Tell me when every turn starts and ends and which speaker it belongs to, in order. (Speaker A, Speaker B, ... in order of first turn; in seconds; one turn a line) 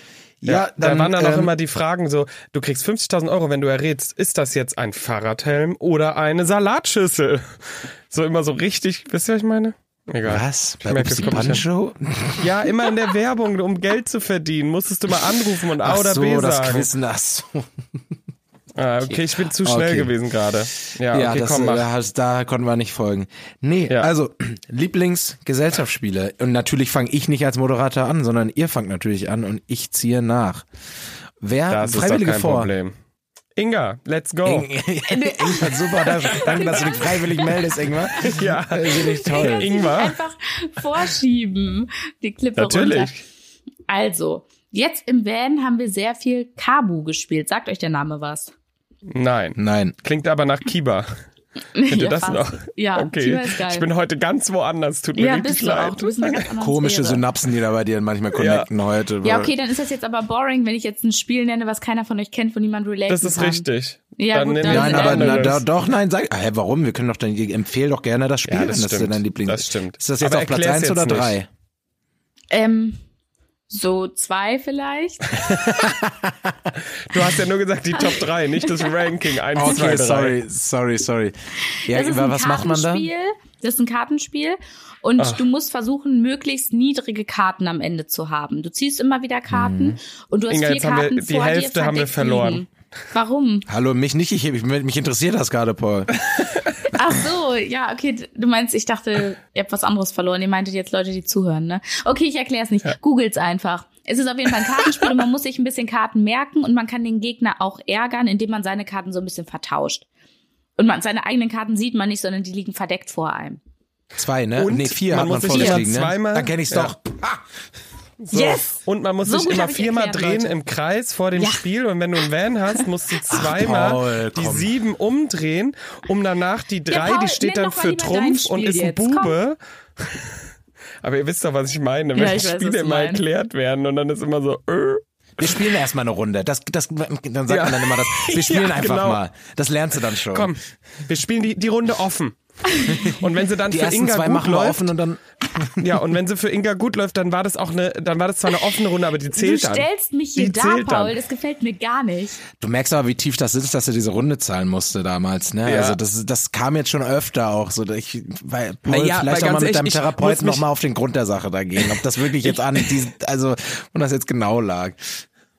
Speaker A: 0.4-1.5
Speaker B: 0.5-11.6
Speaker A: 10.2-12.5
Speaker B: 12.4-16.9
Speaker A: 15.8-17.7
Speaker B: 18.8-21.9
Speaker A: 19.1-20.1
Speaker A: 21.1-30.6
Speaker A: 31.4-32.7
Speaker B: 31.7-32.9
Speaker B: 33.5-34.7
Speaker A: 34.4-39.7
Speaker C: 35.1-37.7
Speaker B: 38.2-40.2
Speaker C: 38.9-43.1
Speaker B: 42.6-43.2
Speaker C: 43.9-48.5
Speaker B: 49.1-51.1
Speaker A: 49.5-49.9
Speaker C: 51.7-53.9
Speaker B: 51.9-56.4
Speaker C: 55.1-57.2
Speaker A: 56.6-59.5
Speaker B: 58.3-58.7
Speaker C: 59.2-65.6
Speaker B: 63.1-65.6
Speaker A: 64.6-71.5
Speaker B: 68.5-71.4
Speaker C: 72.5-73.0
Speaker C: 73.7-75.3
Speaker A: 75.3-76.7
Speaker B: 77.1-80.4
Speaker A: 79.5-81.3
Speaker A: 81.9-83.1
Speaker C: 81.9-93.7
Speaker B: 85.2-85.4
Speaker A: 89.5-90.0
Speaker B: 90.5-92.6
Speaker A: 93.7-96.1
Speaker C: 96.9-110.0
Speaker C: 110.8-113.6
Speaker A: 114.2-117.5
Speaker B: 114.5-116.9
Speaker C: 115.5-115.8
Speaker B: 118.2-130.3
Speaker C: 118.3-120.5
Speaker C: 121.4-121.6
Speaker A: 123.3-124.7
Speaker C: 126.9-129.4
Speaker B: 131.0-135.6
Speaker C: 132.1-133.2
Speaker A: 135.4-140.5
Speaker B: 137.5-139.2
Speaker B: 140.3-144.9
Speaker A: 142.9-146.1
Speaker B: 145.8-151.2
Speaker C: 149.3-152.4
Speaker A: 152.6-165.2
Speaker B: 155.7-156.0
Speaker B: 158.9-160.6
Speaker B: 161.9-162.9